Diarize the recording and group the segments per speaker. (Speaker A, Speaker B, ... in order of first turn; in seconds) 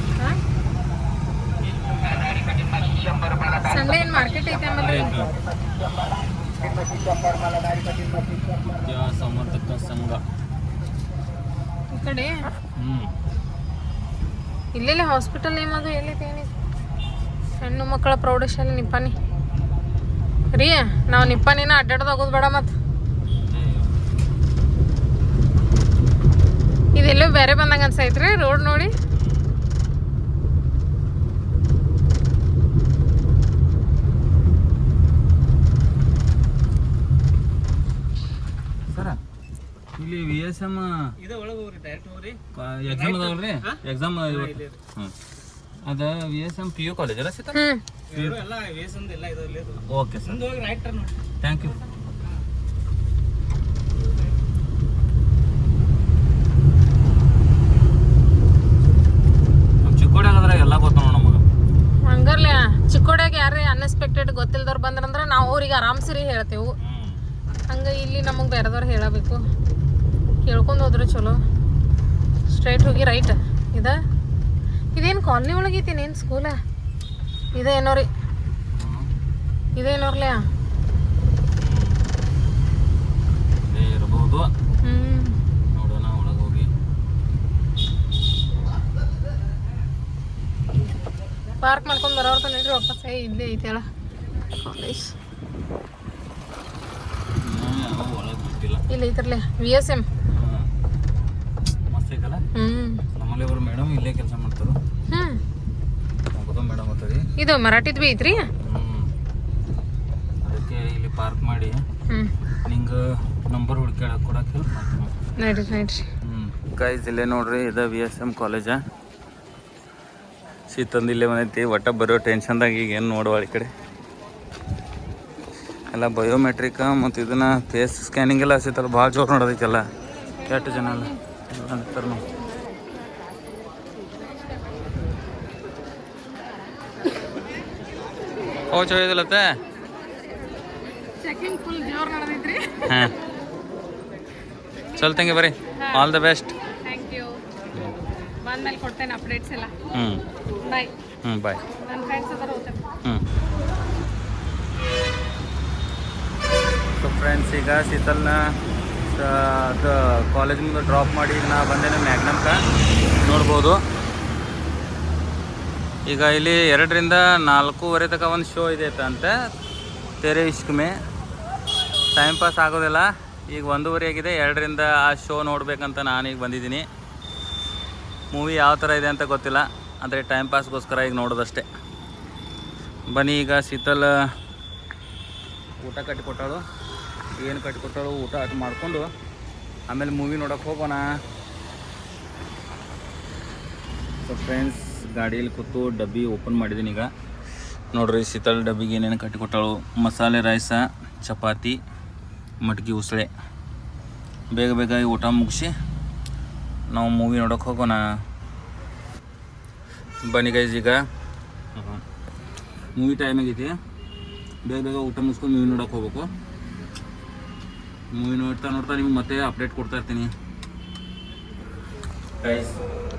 Speaker A: 3.5-5.2, 11.9-12.3, 14.7-16.5, 17.6-19.1, 20.5-22.7, 26.9-28.9, 47.5-47.8, 62.0-66.7, 67.7-69.4, 70.4-71.3, 72.5-74.0, 75.0-76.5, 77.5-78.1, 79.8-80.4, 84.8-85.3, 91.6-93.8, 94.6-95.1, 98.9-100.1, 102.5-103.0, 105.1-105.4, 107.4-108.4, 115.4-116.0, 141.2-143.0, 145.8-146.1, 146.8-147.3, 148.4-149.7, 150.7-150.9, 151.7-152.8
Speaker B: 4.8-5.3, 8.8-10.2, 12.8-13.1, 23.5-23.9, 29.2-29.4, 38.9-39.2, 40.0-41.1, 42.5-45.1, 45.8-48.5, 49.9-50.5, 51.4-51.8, 59.8-61.4, 66.8-67.2, 78.8-79.1, 81.6-82.0, 83.7-84.5, 85.7-86.7, 97.4-98.8, 100.3-100.7, 101.9-102.4, 103.2-104.8, 106.3-107.2, 108.6-109.1, 110.4-111.8, 112.7-115.1, 116.2-118.8, 120.7-123.7, 125.9-129.9, 130.4-132.2, 138.7-139.6, 142.8-143.1, 145.0-146.5, 149.9-150.2, 151.2-151.6, 157.0-158.4, 159.1-162.6, 163.2-163.8, 166.1-169.3, 170.2-170.9, 172.1-176.8, 178.3-181.7, 183.1-184.3, 185.8-186.6, 187.3-189.1, 189.9-191.0, 194.2-197.1, 197.9-201.8, 202.6-203.3, 204.5-205.7, 206.9-208.0, 210.2-211.1, 211.8-212.0, 212.9-213.8, 214.6-216.3, 218.1-220.3, 222.4-222.8
Speaker C: 41.3-42.4, 48.4-49.8, 50.5-51.1